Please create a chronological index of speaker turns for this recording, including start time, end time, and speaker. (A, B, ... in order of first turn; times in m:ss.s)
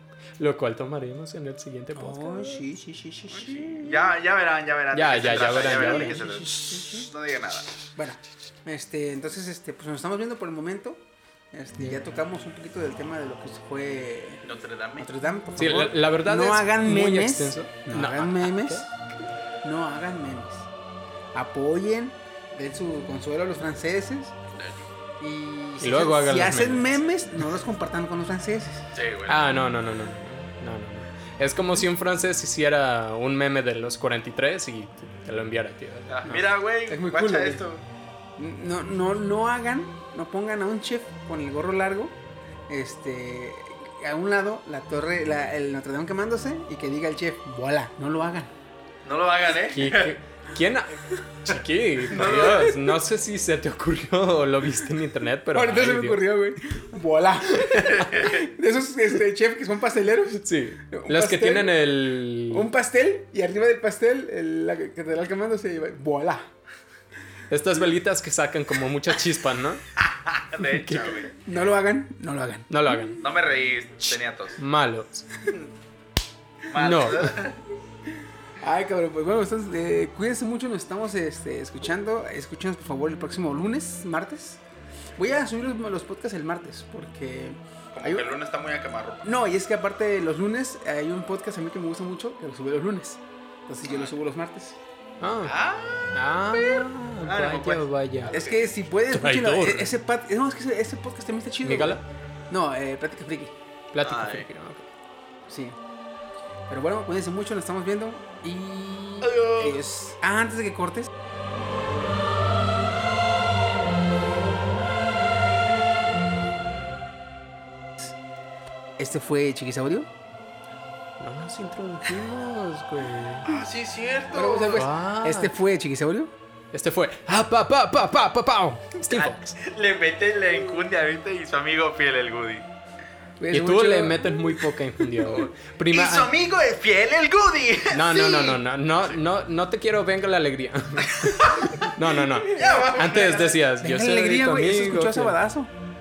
0:00.4-0:02.6 A
0:02.0-0:04.1 B
0:03.3-0:07.7 C
0:04.9-0:06.2 A
0:05.3-0:07.1 B
0:08.0-0:18.9 B
0:14.5-0:15.1 C
0:15.6-0:18.9 A
0:19.6-0:20.7 B
0:21.3-0:24.4 B
0:24.6-0:24.9 C
0:25.2-0:28.9 B
0:25.8-0:27.0 A
0:28.9-0:29.4 C
0:29.3-0:36.4 A
0:36.1-0:37.8 C
0:36.9-0:37.6 B
0:38.4-0:42.2 B
0:42.7-0:48.5 B
0:49.0-0:50.2 C
0:49.7-0:56.2 A
0:52.1-0:52.7 C
0:52.1-0:52.8 B
0:55.5-1:01.8 B
0:57.7-0:58.5 C
1:00.4-1:02.7 A
1:02.5-1:06.5 B
1:07.5-1:09.8 A
1:10.0-1:11.5 C
1:10.6-1:11.1 A
1:11.4-1:13.1 B
1:12.7-1:13.2 A
1:13.2-1:14.6 C
1:14.6-1:15.3 A
1:16.7-1:17.6 C
1:16.7-1:17.4 A
1:18.6-1:24.6 B
1:25.2-1:28.3 B
1:27.9-1:29.3 C
1:29.2-1:34.8 B
1:33.8-1:34.1 C
1:35.2-1:35.6 A
1:35.4-1:38.7 C
1:36.1-1:38.3 A
1:38.3-1:43.6 B
1:39.1-1:39.9 A
1:41.6-1:42.0 A
1:43.9-1:44.9 A
1:44.0-1:44.5 C
1:45.5-1:45.8 B
1:46.7-1:51.1 B
1:49.2-1:49.8 C
1:59.0-2:00.1 B
2:01.2-2:03.5 A
2:03.4-2:04.9 C
2:04.3-2:06.3 B
2:04.7-2:05.6 A
2:06.7-2:09.6 A
2:09.1-2:12.7 C
2:13.4-2:14.6 B
2:13.5-2:16.3 A
2:15.2-2:19.2 C
2:17.9-2:25.4 A
2:21.2-2:21.8 C
2:22.3-2:23.0 B
2:22.5-2:23.7 C
2:23.8-2:25.7 B